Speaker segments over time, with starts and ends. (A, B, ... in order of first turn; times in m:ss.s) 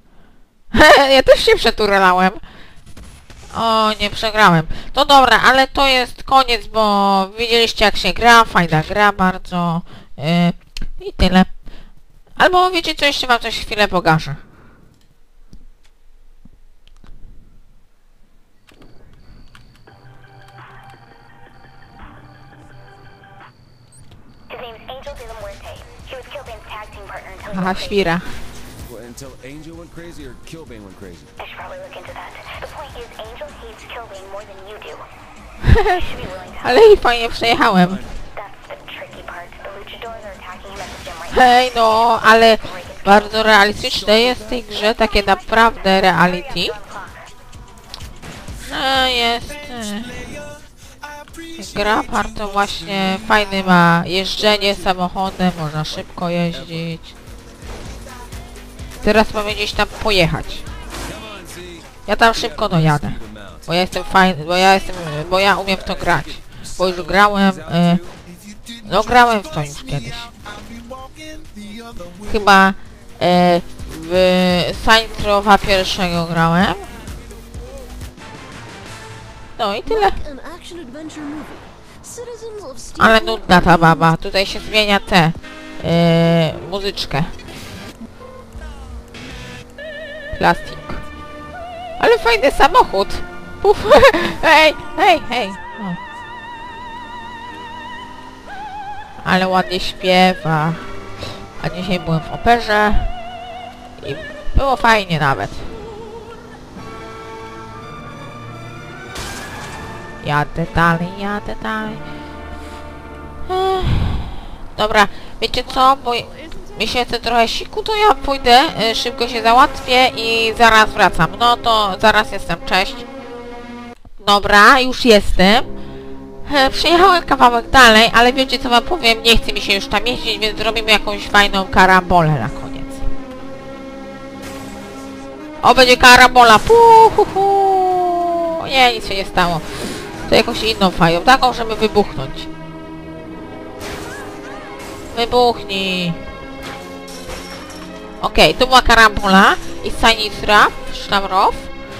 0:00.7-0:02.4 A
0:03.5-0:11.5 A
0:12.4-0:14.4 A
0:24.5-0:28.1 B
0:27.5-0:28.3 A
0:28.8-0:31.3 C
0:31.4-0:35.1 B
0:35.6-0:38.1 A
0:36.0-0:36.8 B
0:37.4-0:38.2 C
0:38.3-0:41.4 B
0:41.3-0:46.8 A
0:42.6-0:43.4 B
0:44.5-0:47.3 B
0:48.6-0:50.2 A
0:51.1-0:51.5 C
0:51.6-0:57.1 A
0:56.5-0:56.9 C
0:59.0-1:00.6 A
1:01.0-1:03.7 C
1:02.1-1:08.0 A
1:05.6-1:08.2 C
1:08.8-1:10.3 A
1:11.3-1:12.0 C
1:12.1-1:17.0 A
1:19.6-1:20.2 A
1:19.8-1:24.1 B
1:23.0-1:27.4 A
1:30.3-1:31.0 A
1:32.0-1:36.0 A
1:39.2-1:43.2 A
1:44.0-1:45.8 A
1:50.2-1:52.0 A
1:53.5-2:03.0 A
1:56.3-1:56.7 B
2:04.2-2:05.7 A
2:06.4-2:13.0 A
2:15.6-2:22.5 A
2:25.1-2:26.2 A
2:28.2-2:31.7 A